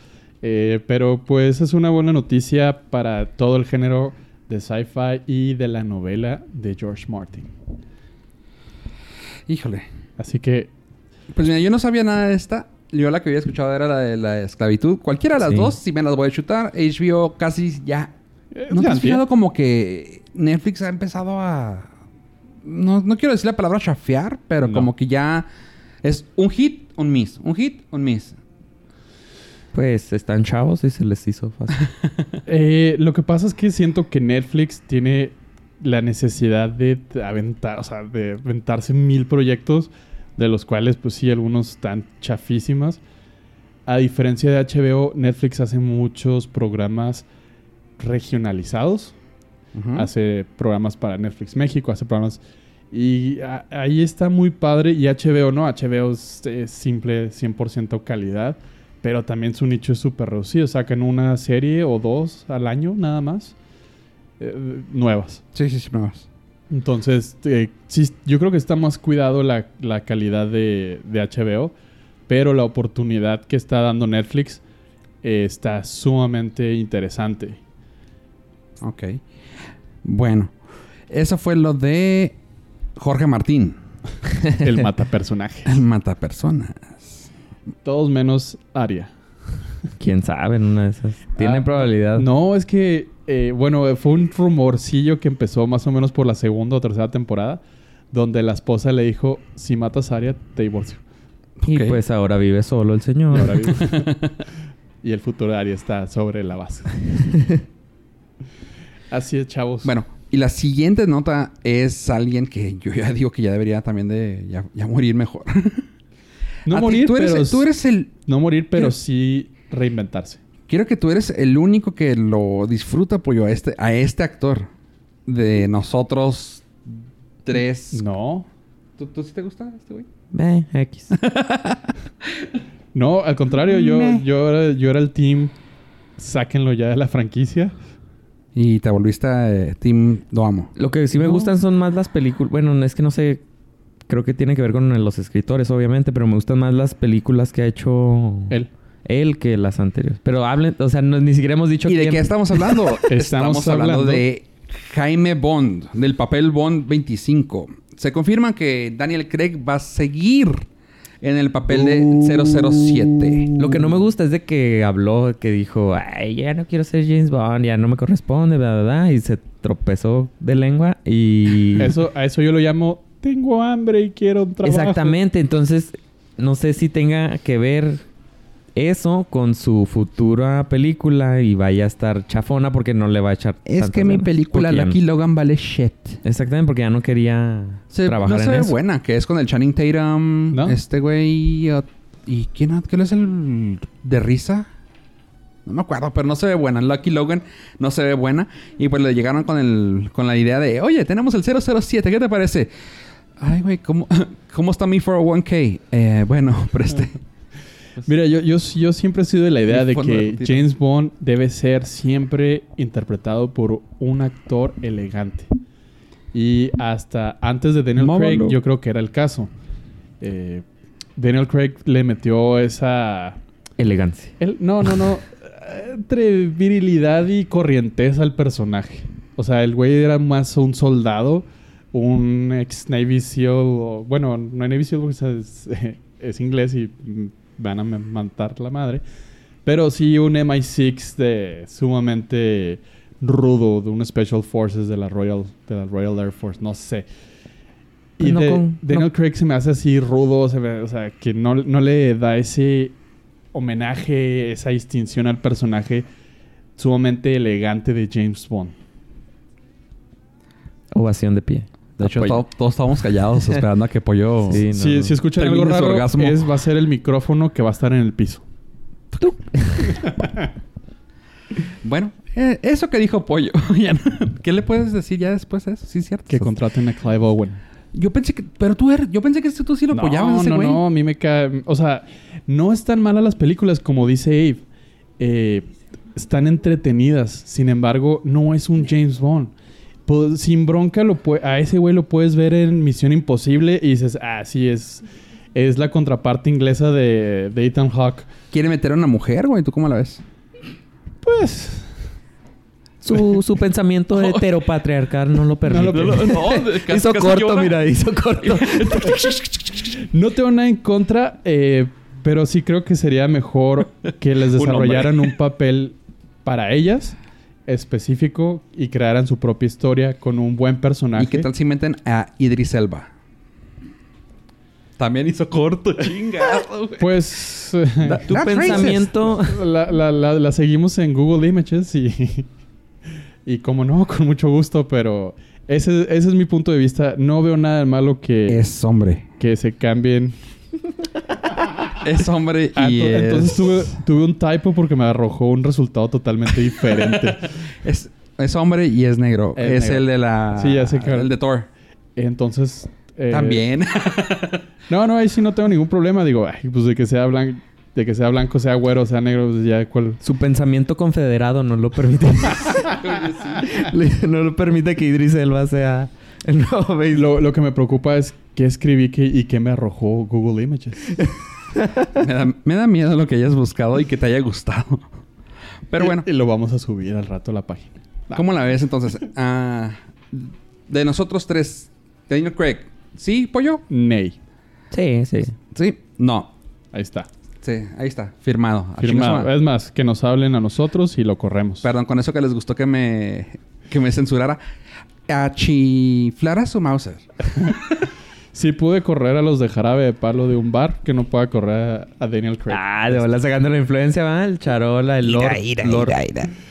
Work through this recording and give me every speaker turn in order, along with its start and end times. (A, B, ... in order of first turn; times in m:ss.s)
0:00.4-0:07.5 A
0:09.5-0:09.8 B
0:10.2-0:10.7 A
0:11.3-0:18.1 B
0:15.4-0:15.7 C
0:18.5-0:19.2 A
0:18.7-0:21.9 B
0:22.6-0:25.5 B
0:24.6-0:24.9 A
0:26.0-0:28.4 B
0:29.7-0:31.8 C
0:32.4-0:43.0 A
0:43.9-0:47.2 A
0:48.0-0:49.1 A
0:49.7-0:50.1 B
0:49.9-1:03.5 A
1:04.4-1:05.4 A
1:05.5-1:06.3 B
1:06.7-1:11.7 A
1:12.3-1:14.6 A
1:15.2-1:17.6 A
1:18.8-1:19.2 B
1:20.0-1:20.5 B
1:21.1-1:22.4 B
1:23.0-1:23.8 B
1:24.6-1:25.8 A
1:25.6-1:27.3 B
1:27.8-1:29.1 A
1:30.0-1:32.2 C
1:31.4-1:41.0 A
1:41.6-1:42.0 B
1:41.6-1:43.8 C
1:43.3-1:44.2 A
1:43.8-1:44.3 B
1:45.0-1:47.2 A
1:47.3-1:47.6 C
1:49.1-1:49.9 A
1:49.8-1:55.9 B
1:56.6-2:00.4 A
1:56.7-1:58.1 B
2:00.7-2:04.7 B
2:05.2-2:08.0 B
2:07.9-2:08.5 A
2:09.0-2:10.1 B
2:10.3-2:11.2 C
2:11.1-2:12.5 B
2:12.9-2:15.5 A
2:13.7-2:14.2 B
2:16.2-2:17.7 A
2:18.5-2:20.7 B
2:20.8-2:23.4 C
2:21.2-2:21.5 A
2:24.1-2:32.3 C
2:31.8-2:40.7 B
2:33.0-2:34.2 A
2:41.2-2:43.5 B
2:41.7-2:43.8 A
2:43.6-2:51.9 C
2:51.8-2:55.2 A
2:54.6-2:58.0 C
2:58.7-3:05.0 C
3:03.6-3:06.2 B
3:06.2-3:08.7 C
3:07.9-3:14.7 B
3:10.5-3:10.8 A
3:15.6-3:22.7 B
3:23.4-3:27.2 B
3:28.0-3:35.5 A
3:29.7-3:30.6 B
3:36.3-3:39.5 A
3:38.1-3:38.3 C
3:40.2-3:40.6 A
3:41.2-3:43.4 A
3:43.8-3:44.3 C
3:44.4-3:59.0 A
3:59.6-4:07.0 A
4:08.2-4:12.9 A
4:08.2-4:09.1 C
4:13.5-4:16.0 A
4:16.8-4:18.7 A
4:20.9-4:22.4 C
4:22.0-4:24.6 B
4:24.5-4:25.2 C
4:24.5-4:28.4 A
4:25.4-4:26.4 B
4:29.2-4:30.1 C
4:31.8-4:36.5 B
4:36.3-4:37.6 A
4:37.9-4:40.8 B
4:39.9-4:44.6 A
4:45.2-4:49.5 A
4:50.1-4:55.0 A
4:55.5-4:58.3 A
4:58.5-5:00.2 B
5:01.2-5:01.9 A
5:03.0-5:09.3 C
5:04.2-5:04.4 B
5:05.6-5:06.5 A
5:05.9-5:07.8 B
5:08.4-5:09.8 B
5:09.9-5:21.5 A
5:14.5-5:15.3 B
5:21.2-5:23.1 B
5:25.0-5:27.1 B
5:27.0-5:32.5 A
5:28.0-5:29.1 B
5:28.2-5:29.6 C
5:33.4-5:38.7 A
5:38.5-5:39.2 B
5:39.4-5:40.3 A
5:42.0-5:43.9 B
5:42.7-5:47.5 A
5:46.9-5:51.7 B
5:49.6-5:51.3 A
5:52.2-5:53.6 A
5:53.3-5:54.6 B
5:54.9-6:00.2 A
6:00.2-6:03.0 C
6:02.7-6:03.7 B
6:03.6-6:07.3 C
6:07.1-6:11.1 A
6:11.2-6:12.1 C
6:12.2-6:15.1 B
6:15.9-6:16.2 B
6:16.0-6:18.4 A
6:18.3-6:23.8 B
6:23.9-6:24.4 A
6:24.9-6:25.5 C
6:25.7-6:26.5 B
6:26.9-6:27.3 A
6:27.6-6:29.5 B
6:29.0-6:31.8 A
6:31.8-6:34.6 B
6:35.3-6:38.0 B
6:38.5-6:43.2 A
6:42.7-6:46.2 C
6:45.2-6:46.5 B